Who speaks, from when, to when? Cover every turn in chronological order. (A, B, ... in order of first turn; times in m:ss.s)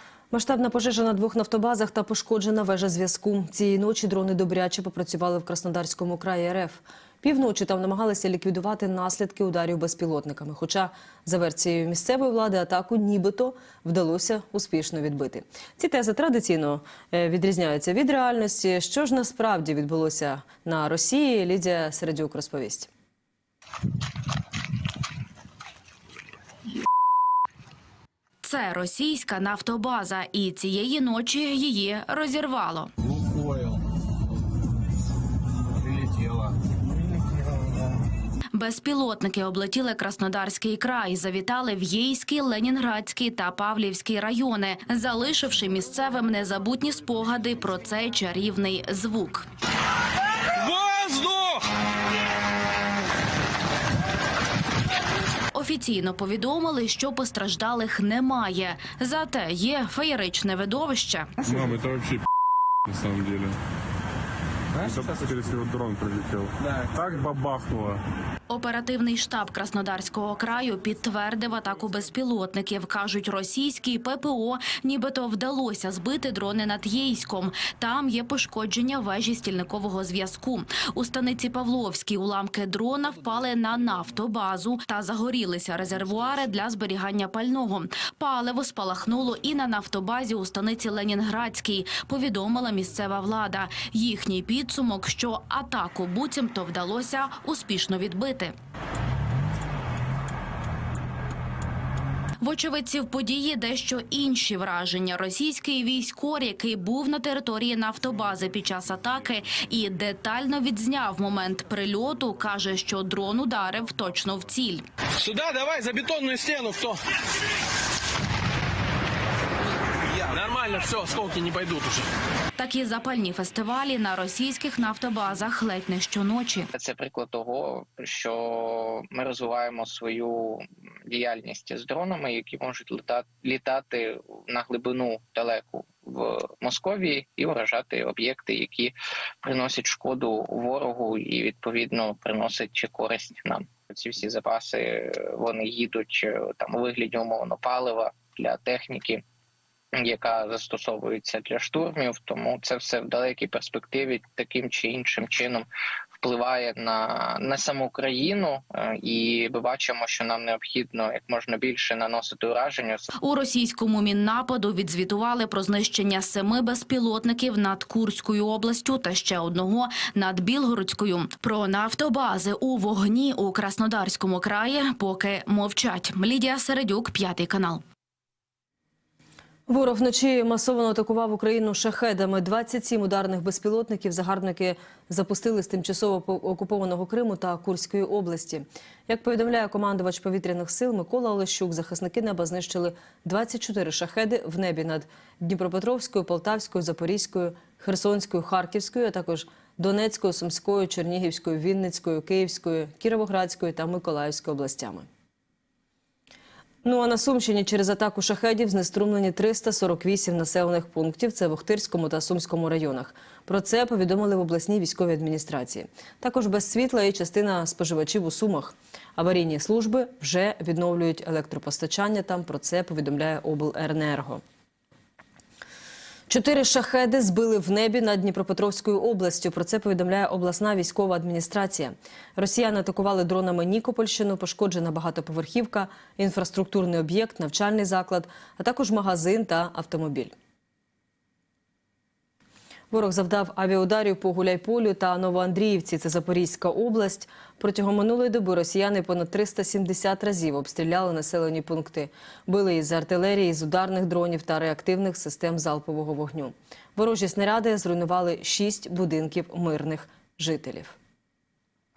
0:00.3-0:22.9 A
0:28.4-0:32.9 B
0:33.0-0:33.7 C
0:35.8-0:36.5 C
0:38.5-0:49.5 B
0:50.5-0:51.6 C
0:55.5-1:01.3 B
1:01.4-1:02.2 D
1:02.8-1:03.6 D
1:04.8-1:08.0 D
1:08.5-1:38.5 B
1:42.4-1:54.8 B
1:55.2-1:57.0 C
2:00.2-2:02.0 C
2:02.6-2:06.7 B
2:06.7-2:29.2 E
2:30.0-2:35.7 E
2:36.2-2:43.1 E
2:43.2-2:57.8 B
2:59.7-3:25.1 A
3:26.8-3:44.4 A
3:46.3-4:00.3 A
4:02.9-4:20.9 A